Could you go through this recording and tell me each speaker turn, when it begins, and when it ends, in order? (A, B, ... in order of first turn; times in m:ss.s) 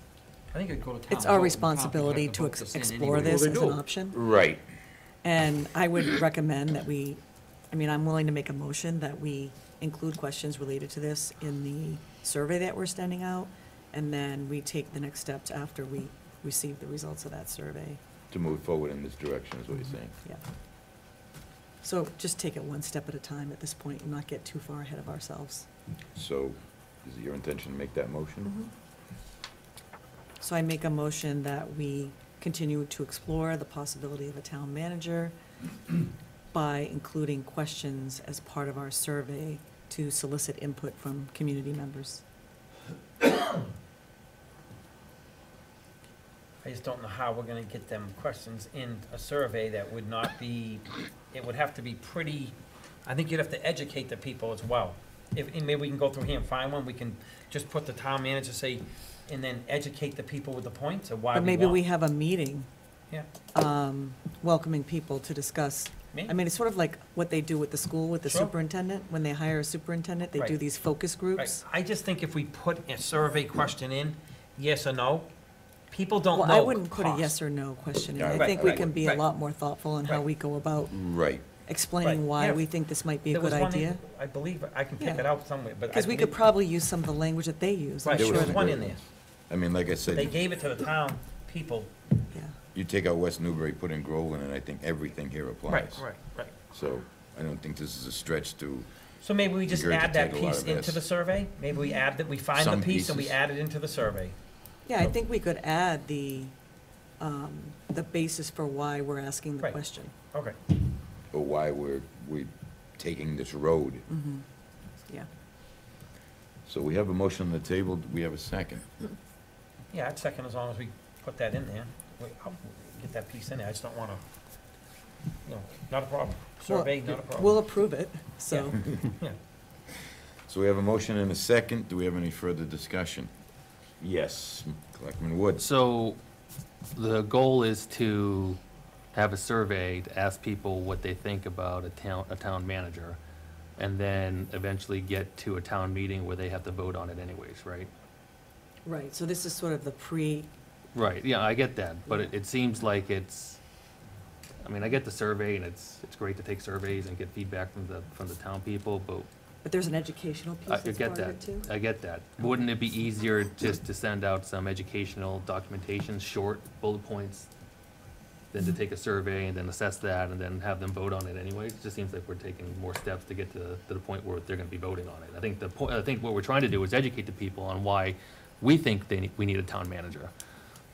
0:00.5-0:03.8 A
0:01.1-0:04.2 B
0:04.1-0:04.6 C
0:05.2-0:18.0 B
0:18.3-0:20.2 C
0:21.8-0:25.6 B
0:26.1-0:28.6 C
0:30.4-0:35.3 B
0:36.5-0:42.2 B
0:46.6-1:01.8 A
1:01.3-1:02.7 B
1:03.5-1:11.6 B
1:08.2-1:08.5 A
1:11.4-1:15.3 A
1:15.9-1:17.4 A
1:16.3-1:20.9 B
1:18.2-1:19.0 C
1:18.3-1:19.2 A
1:20.9-1:21.4 C
1:21.6-1:24.0 B
1:22.0-1:22.7 A
1:23.3-1:26.4 A
1:25.0-1:25.3 B
1:25.9-1:28.7 B
1:28.0-1:29.0 A
1:28.1-1:30.4 C
1:30.1-1:31.9 A
1:32.7-1:36.1 C
1:35.7-1:36.5 A
1:36.6-1:38.9 C
1:39.2-1:44.4 A
1:39.5-1:41.0 C
1:42.5-1:43.4 C
1:44.8-1:46.5 B
1:47.2-1:50.1 B
1:50.3-1:50.6 A
1:51.3-1:54.0 C
1:54.1-1:54.4 B
1:56.6-1:59.1 C
1:59.9-2:04.2 A
2:05.4-2:07.6 A
2:06.7-2:08.8 B
2:08.5-2:09.4 A
2:10.5-2:13.3 C
2:14.0-2:15.7 C
2:15.6-2:16.2 D
2:16.9-2:18.6 D
2:19.1-2:23.2 D
2:23.8-2:27.9 D
2:28.8-2:30.5 B
2:30.9-2:33.6 D
2:34.6-2:39.3 D
2:39.6-2:41.7 B
2:40.7-2:47.5 D
2:48.5-3:00.3 D